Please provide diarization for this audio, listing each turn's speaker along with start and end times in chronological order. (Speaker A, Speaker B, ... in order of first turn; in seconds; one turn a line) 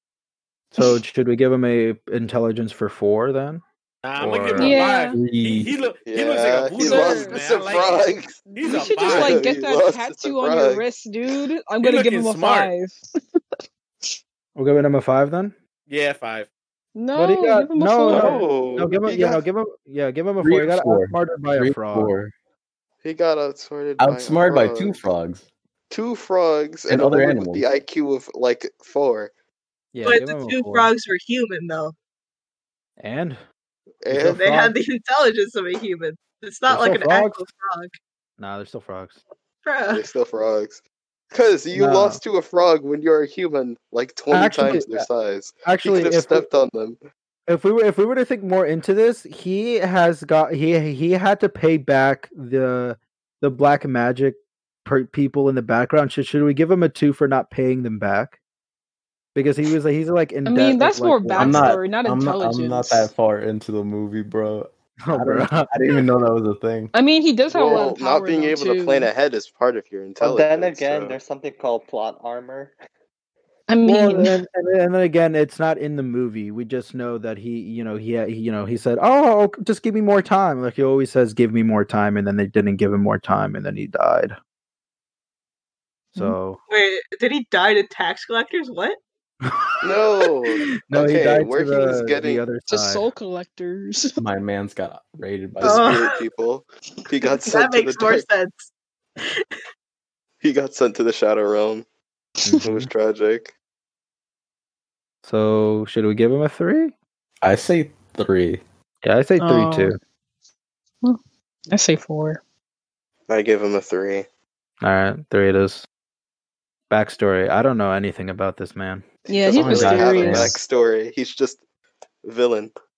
Speaker A: 0.8-3.6
Speaker B: 4.0-9.4
Speaker A: 4.2-4.8
Speaker C: 4.6-5.2
Speaker D: 5.1-5.7
Speaker E: 6.0-8.4
Speaker C: 6.8-7.4
Speaker C: 8.6-13.0
Speaker E: 9.0-10.9
Speaker B: 11.8-12.7
Speaker A: 14.6-15.6
Speaker B: 15.9-16.5
Speaker C: 16.9-18.5
Speaker A: 17.1-22.1
Speaker E: 18.1-19.4
Speaker D: 20.4-22.3
Speaker E: 23.0-25.1
Speaker D: 24.0-25.5
Speaker E: 25.9-29.3
Speaker D: 26.9-27.7
Speaker A: 29.9-30.9
Speaker F: 30.0-31.9
Speaker A: 33.0-33.4
Speaker E: 34.0-34.4
Speaker A: 34.1-34.8
Speaker F: 34.3-37.9
Speaker A: 36.7-37.5
Speaker A: 38.4-39.2
Speaker F: 39.6-40.1
Speaker E: 39.9-40.8
Speaker E: 41.3-47.0
Speaker A: 41.7-42.2
Speaker A: 44.3-45.1
Speaker A: 45.6-46.5
Speaker A: 47.5-58.4
Speaker A: 59.4-61.8
Speaker C: 60.5-63.1
Speaker D: 61.4-66.9
Speaker A: 65.0-65.7
Speaker C: 66.9-69.1
Speaker E: 67.5-71.2
Speaker G: 70.2-72.8
Speaker C: 73.7-74.4
Speaker A: 73.8-84.4
Speaker A: 86.1-86.6
Speaker F: 86.7-89.0
Speaker E: 89.8-92.5
Speaker A: 90.8-93.1
Speaker C: 92.7-94.1
Speaker D: 94.2-96.0
Speaker F: 95.6-96.2
Speaker E: 95.6-98.2
Speaker F: 97.2-98.7
Speaker F: 99.2-99.5
Speaker E: 100.4-101.9
Speaker A: 102.5-102.9
Speaker E: 102.6-103.5
Speaker A: 105.2-106.9
Speaker D: 107.4-108.6
Speaker A: 109.0-110.0
Speaker C: 109.4-110.0
Speaker C: 111.7-112.4
Speaker E: 113.3-114.2
Speaker A: 114.8-115.9
Speaker A: 116.9-119.1
Speaker C: 119.3-120.6
Speaker E: 119.3-121.6
Speaker D: 119.6-120.5
Speaker A: 119.6-120.5
Speaker E: 122.2-122.7